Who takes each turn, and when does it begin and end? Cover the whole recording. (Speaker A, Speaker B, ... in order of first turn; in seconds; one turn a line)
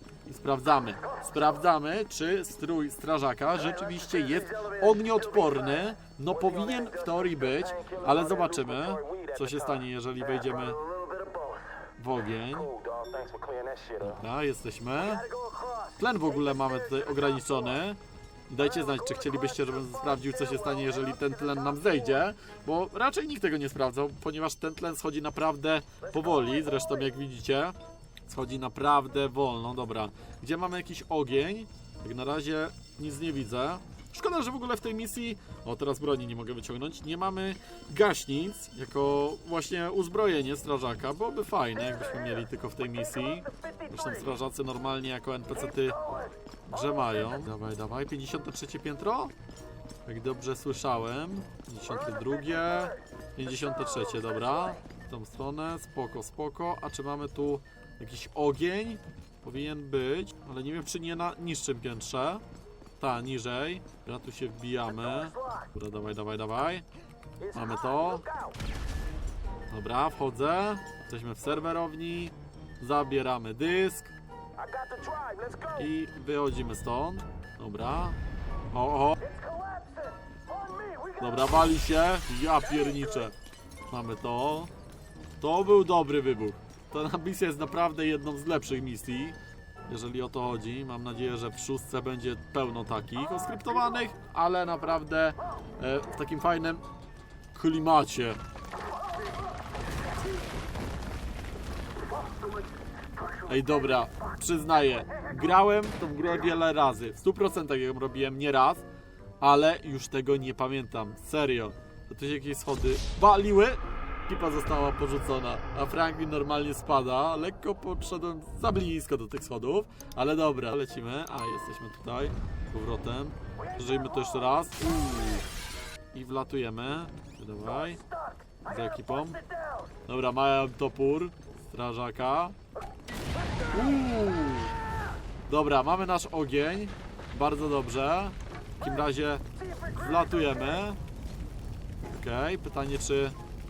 Speaker A: 0.2-10.8
Speaker B: 4.0-5.6
Speaker B: 6.5-9.8
Speaker B: 10.4-11.6
Speaker A: 12.0-12.7
Speaker B: 12.6-14.2
Speaker A: 14.0-15.2
Speaker B: 15.0-16.0
Speaker A: 16.0-49.3
Speaker B: 18.9-19.7
Speaker A: 50.0-62.4
Speaker A: 63.0-66.8
Speaker B: 67.4-68.5
Speaker A: 67.5-68.2
Speaker A: 69.7-74.1
Speaker B: 74.6-75.8
Speaker A: 75.7-78.2
Speaker A: 78.7-79.3
Speaker B: 79.2-81.3
Speaker A: 81.2-83.3
Speaker A: 83.9-84.7
Speaker A: 85.4-89.3
Speaker A: 89.9-96.8
Speaker A: 97.5-98.4
Speaker A: 103.4-108.8
Speaker A: 109.4-125.5
Speaker A: 126.1-128.0
Speaker B: 128.1-128.5
Speaker A: 128.6-129.4
Speaker A: 130.1-132.6
Speaker A: 133.7-134.8
Speaker A: 135.5-141.0
Speaker A: 142.1-143.4